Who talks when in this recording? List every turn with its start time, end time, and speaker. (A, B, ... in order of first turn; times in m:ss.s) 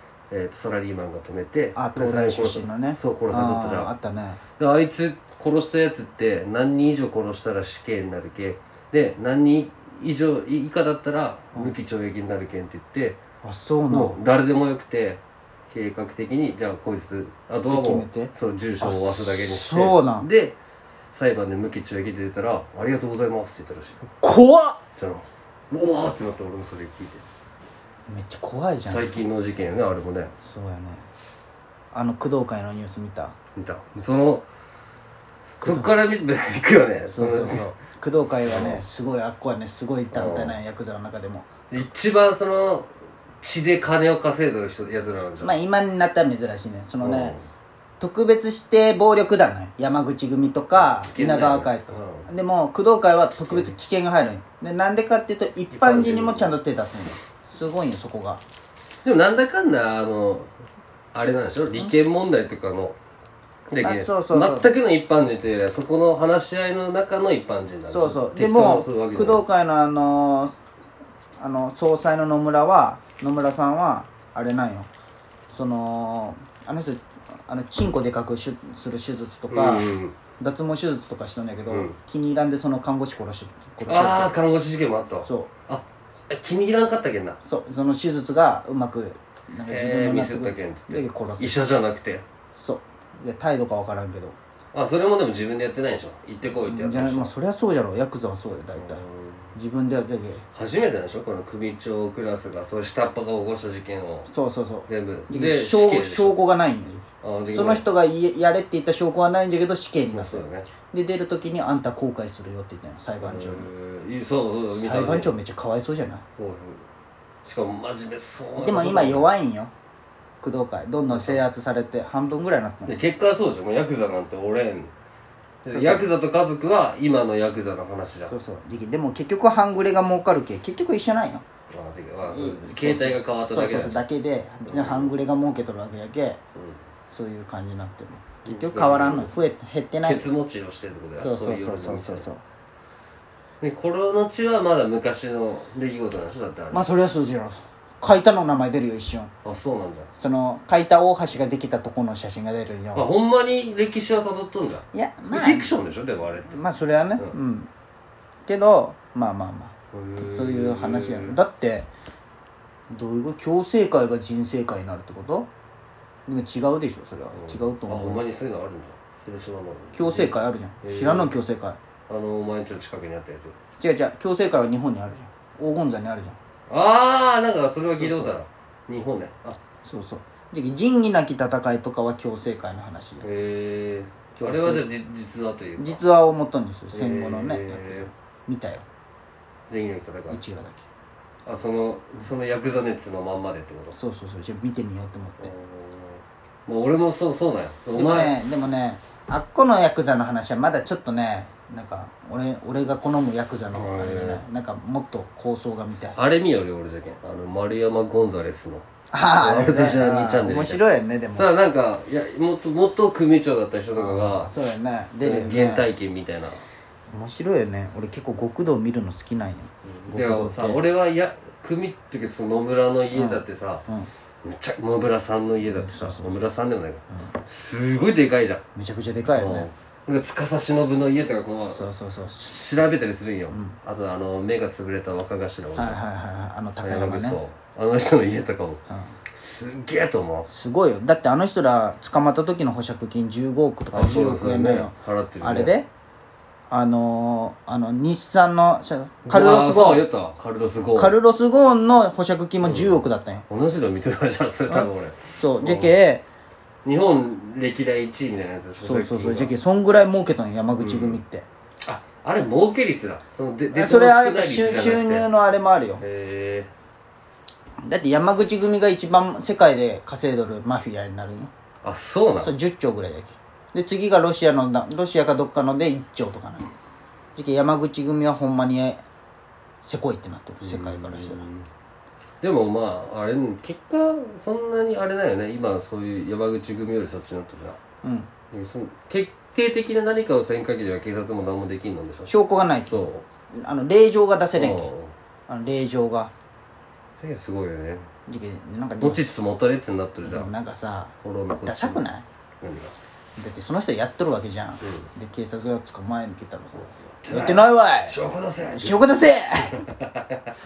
0:00.3-0:03.9 A
0:01.8-0:04.4 B
0:04.6-0:13.2 A
0:13.4-0:14.2 B
0:13.9-0:20.6 A
0:17.7-0:20.3 B
0:21.1-0:24.0 A
0:24.1-0:24.8 B
0:25.0-0:27.2 A
0:28.1-0:29.2 B
0:28.9-0:30.4 A
0:30.4-0:31.1 B
0:31.9-0:33.4 B
0:33.6-0:34.5 A
0:35.6-0:35.9 B
0:35.6-0:37.7 A
0:37.1-0:41.5 B
0:38.4-0:38.8 A
0:40.1-0:40.6 A
0:41.7-0:45.6 A
0:45.4-0:47.4 B
0:47.0-0:47.5 A
0:48.0-0:58.4 B
0:50.8-0:52.3 A
0:53.4-0:53.7 A
0:55.7-0:56.6 A
0:59.0-1:00.5 A
1:01.2-1:03.0 A
1:03.7-1:09.4 A
1:03.8-1:04.8 B
1:07.9-1:10.6 B
1:11.4-1:14.9 B
1:15.5-1:24.4 B
1:19.5-1:20.2 A
1:21.7-1:22.0 A
1:23.9-1:27.4 A
1:25.2-1:25.5 B
1:27.4-1:31.7 B
1:29.6-1:32.3 A
1:32.6-1:34.4 B
1:34.7-1:37.3 A
1:36.6-1:39.0 B
1:38.8-1:39.6 A
1:39.6-1:40.5 B
1:40.5-1:44.3 A
1:44.3-1:53.7 B
1:44.9-1:46.4 A
1:47.2-1:47.9 A
1:50.1-1:50.7 A
1:53.2-1:55.4 A
1:54.8-1:56.3 B
1:56.4-1:56.8 A
1:57.4-1:59.3 A
1:58.6-1:59.7 B
2:00.4-2:03.0 B
2:01.1-2:01.4 A
2:02.9-2:04.9 A
2:05.6-2:08.3 A
2:05.7-2:06.1 B
2:08.2-2:11.4 B
2:11.7-2:14.0 A
2:12.3-2:16.4 B
2:14.6-2:15.1 A
2:16.6-2:16.8 A
2:17.1-2:20.3 B
2:18.4-2:19.3 A
2:20.0-2:22.3 A
2:21.2-2:22.4 B
2:23.6-2:26.9 A
2:26.7-2:29.3 B
2:29.4-2:30.1 A
2:30.2-2:33.1 B
2:32.9-2:36.6 A
2:34.9-2:35.7 B
2:36.5-2:37.7 B
2:38.5-2:41.9 B
2:39.9-2:41.4 A
2:42.9-2:45.5 B
2:46.3-2:48.2 B
2:47.3-2:51.4 A
2:49.9-2:51.8 B
2:52.1-2:53.6 A
2:53.8-2:56.4 B
2:56.7-2:59.6 A
2:58.0-2:58.4 B
2:59.8-3:03.3 B
3:03.2-3:06.0 A
3:04.3-3:04.9 B
3:05.8-3:08.9 B
3:06.9-3:08.1 A
3:09.7-3:10.4 A
3:10.3-3:10.9 B
3:11.5-3:14.0 A
3:13.9-3:15.5 B
3:15.4-3:18.4 A
3:17.9-3:26.2 B
3:23.7-3:24.4 A
3:26.2-3:34.5 A
3:29.1-3:31.5 B
3:34.0-3:35.9 B
3:35.2-3:36.6 A
3:37.1-3:40.8 B
3:39.8-3:43.9 A
3:43.1-3:44.1 B
3:44.4-3:48.6 A
3:45.6-3:46.4 B
3:48.8-3:49.7 B
3:49.3-3:51.9 A
3:51.7-3:52.6 B
3:52.4-3:56.0 A
3:53.5-3:53.8 B
3:55.8-3:57.4 B
3:56.8-4:00.5 A
3:58.9-3:59.2 B
4:00.5-4:05.9 B
4:03.9-4:05.8 A
4:06.7-4:10.1 B
4:09.3-4:11.2 A
4:10.9-4:13.5 B
4:12.6-4:16.0 A
4:14.7-4:16.3 B
4:16.8-4:19.5 A
4:18.8-4:21.5 B
4:20.8-4:21.2 A
4:21.8-4:25.3 A
4:23.7-4:26.0 B
4:26.0-4:26.7 A
4:27.8-4:31.5 B
4:31.8-4:32.6 A
4:32.4-4:36.7 B
4:37.4-4:39.0 B
4:39.8-4:41.5 B
4:40.6-4:41.7 A
4:42.4-4:47.8 A
4:48.0-4:48.3 B
4:48.5-4:52.3 A
4:52.3-4:53.0 B
4:52.9-4:53.2 A
4:53.5-4:54.9 B
4:54.5-4:55.2 A
4:55.5-4:56.3 B
4:57.2-4:58.1 A
4:58.3-4:59.3 B
4:59.0-5:00.5 A
5:00.2-5:02.2 B
5:01.2-5:02.0 A
5:02.6-5:03.0 A
5:03.4-5:09.8 B
5:04.8-5:05.1 A
5:06.8-5:09.1 A
5:09.7-5:10.5 A